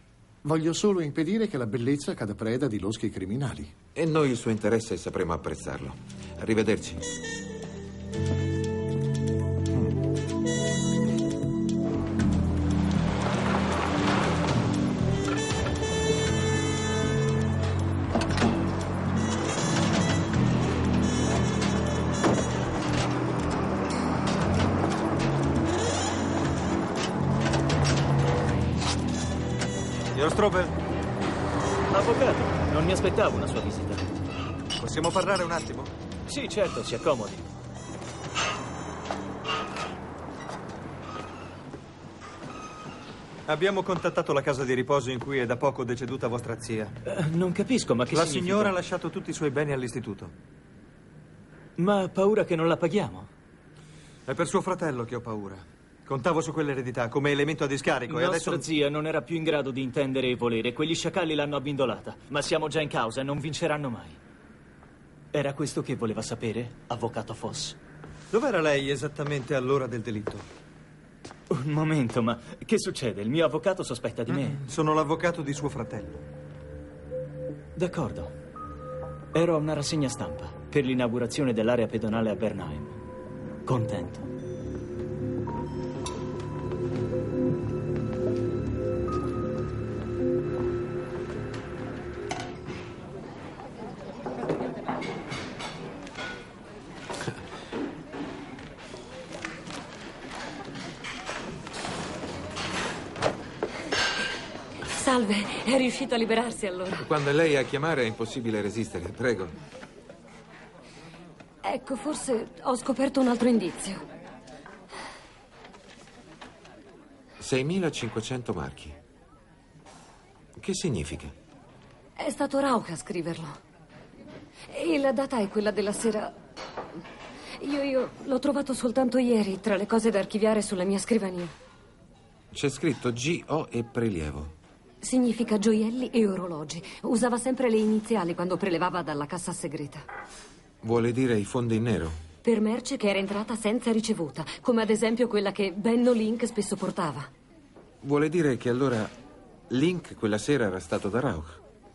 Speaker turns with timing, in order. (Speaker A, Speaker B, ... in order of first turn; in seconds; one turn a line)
Speaker A: 0.4-3.7
Speaker B: 3.9-7.0
Speaker C: 30.1-30.8
Speaker D: 31.9-34.0
Speaker C: 34.8-35.9
Speaker D: 36.3-37.5
Speaker C: 43.5-46.9
Speaker D: 47.0-48.7
Speaker C: 48.1-50.3
Speaker D: 51.8-53.3
Speaker C: 54.3-58.7
Speaker D: 58.1-64.2
Speaker D: 65.3-67.8
Speaker C: 68.3-70.5
Speaker D: 71.5-74.6
Speaker C: 74.3-76.2
Speaker D: 77.8-78.3
Speaker D: 79.3-82.9
Speaker D: 83.6-84.3
Speaker E: 104.9-107.0
Speaker B: 107.0-109.5
Speaker E: 111.6-114.0
Speaker B: 117.4-119.0
Speaker B: 120.6-121.3
Speaker E: 122.2-123.6
Speaker E: 124.7-126.3
Speaker E: 127.5-131.5
Speaker B: 132.5-134.5
Speaker E: 135.0-140.0
Speaker B: 140.8-142.2
Speaker E: 142.4-147.3
Speaker B: 148.0-149.1
Speaker B: 149.7-151.6